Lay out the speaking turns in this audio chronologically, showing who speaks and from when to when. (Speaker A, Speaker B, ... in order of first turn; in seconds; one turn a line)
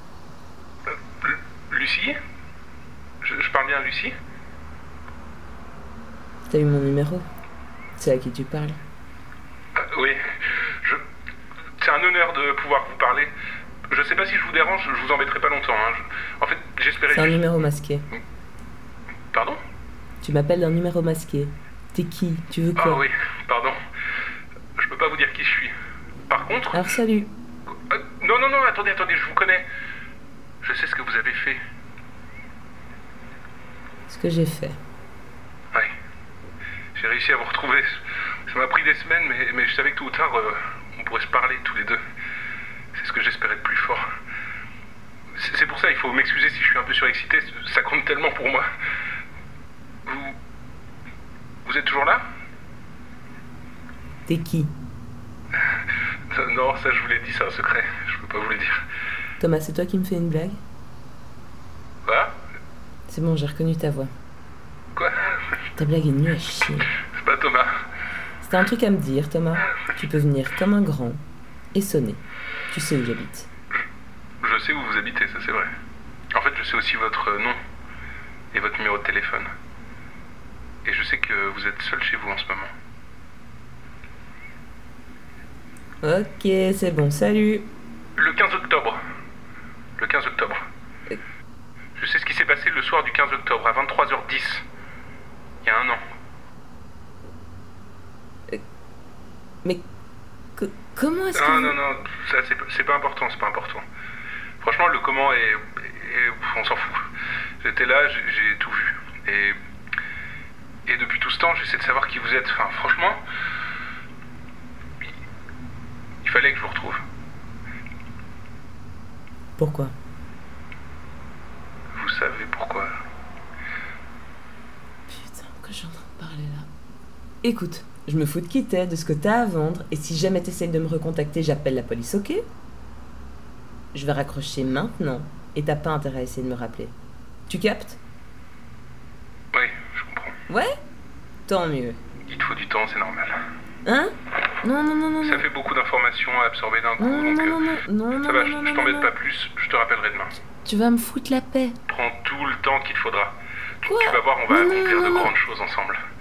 Speaker A: 1.2-2.2
Speaker A: 3.2-4.2
Speaker B: 6.5-7.3
Speaker B: 8.0-8.8
Speaker A: 9.8-11.0
Speaker A: 11.8-13.3
Speaker A: 13.9-17.5
Speaker B: 17.1-18.1
Speaker A: 19.3-19.6
Speaker B: 20.2-23.1
Speaker A: 22.8-23.8
Speaker A: 24.8-25.7
Speaker A: 26.3-26.9
Speaker B: 26.7-27.3
Speaker A: 27.9-29.7
Speaker A: 30.6-31.6
Speaker B: 34.1-34.8
Speaker A: 37.0-42.0
Speaker A: 42.9-44.0
Speaker A: 45.3-48.7
Speaker A: 50.1-50.4
Speaker A: 51.6-52.2
Speaker B: 54.3-54.7
Speaker A: 56.3-58.8
Speaker B: 59.4-60.6
Speaker A: 62.0-62.3
Speaker B: 63.1-64.1
Speaker A: 65.0-65.5
Speaker B: 65.8-66.9
Speaker A: 66.9-67.7
Speaker B: 68.4-71.2
Speaker B: 71.7-73.5
Speaker A: 74.4-75.7
Speaker A: 76.3-77.6
Speaker A: 78.5-79.5
Speaker A: 80.8-82.7
Speaker B: 86.0-87.7
Speaker A: 88.2-89.0
Speaker A: 90.0-90.6
Speaker A: 92.0-94.7
Speaker A: 95.6-96.0
Speaker B: 100.6-101.8
Speaker A: 101.3-103.8
Speaker A: 104.6-107.1
Speaker A: 107.6-109.6
Speaker A: 110.9-113.2
Speaker A: 116.2-117.0
Speaker B: 119.6-119.9
Speaker A: 122.0-123.0
Speaker B: 125.1-126.7
Speaker B: 127.4-132.4
Speaker B: 133.9-136.9
Speaker B: 137.5-138.0
Speaker A: 139.5-140.4
Speaker B: 140.5-140.8
Speaker B: 141.5-142.0
Speaker A: 142.3-143.4
Speaker B: 143.9-145.5
Speaker A: 145.2-150.4
Speaker B: 147.0-149.1
Speaker B: 150.7-151.8
Speaker A: 151.9-156.0
Speaker B: 153.9-155.3